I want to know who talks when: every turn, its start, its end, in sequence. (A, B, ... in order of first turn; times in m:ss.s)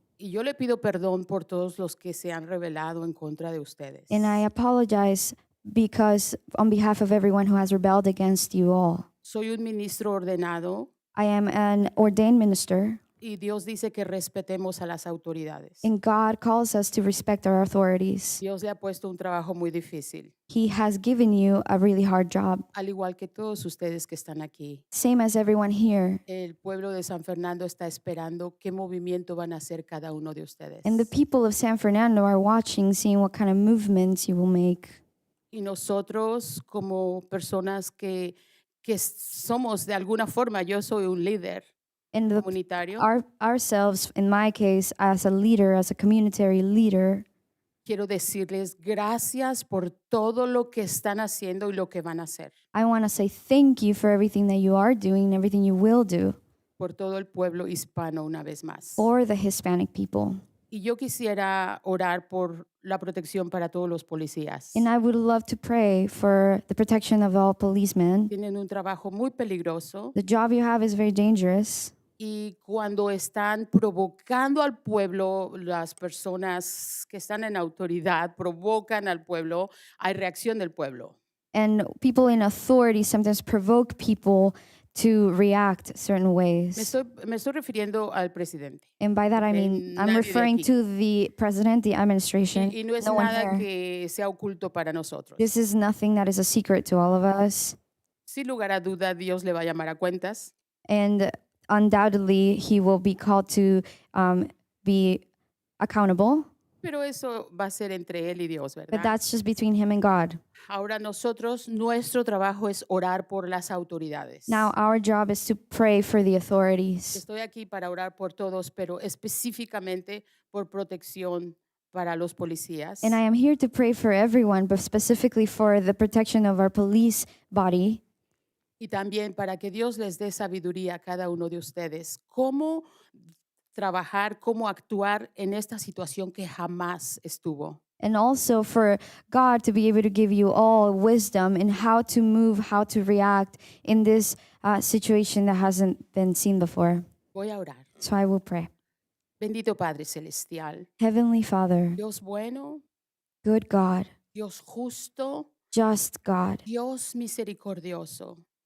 0:00.2-0:04.4 A
0:04.1-0:09.1 B
0:09.2-0:10.9 A
0:11.2-0:13.0 B
0:13.2-0:15.9 A
0:15.8-0:18.4 B
0:18.4-0:20.3 A
0:20.5-0:22.7 B
0:22.7-0:24.8 A
0:24.9-0:26.2 B
0:26.3-0:31.1 A
0:30.8-0:35.0 B
0:35.5-0:41.6 A
0:42.1-0:47.2 B
0:42.4-0:43.1 A
0:47.9-0:52.5 A
0:52.7-0:56.4 B
0:56.8-0:59.1 A
0:59.0-1:00.4 B
1:00.7-1:04.9 A
1:04.8-1:08.3 B
1:08.3-1:10.2 A
1:10.2-1:11.9 B
1:12.2-1:21.2 A
1:21.5-1:26.9 B
1:26.8-1:30.7 A
1:29.0-1:33.7 B
1:32.5-1:35.5 A
1:35.4-1:37.8 B
1:38.3-1:40.5 A
1:40.9-1:45.2 B
1:45.8-1:46.5 B
1:46.8-1:49.2 A
1:48.9-1:50.4 B
1:50.7-1:54.7 A
1:54.5-1:57.2 B
1:57.1-2:03.2 A
2:03.0-2:08.0 B
2:08.8-2:12.9 A
2:13.8-2:17.8 A
2:18.0-2:27.0 B
2:27.3-2:27.9 A
2:28.0-2:28.7 B
2:29.4-2:30.9 A
2:31.0-2:32.0 B
2:32.0-2:32.8 A
2:33.4-2:34.1 B
2:34.3-2:35.5 A
2:35.7-2:36.6 B
2:36.6-2:38.4 A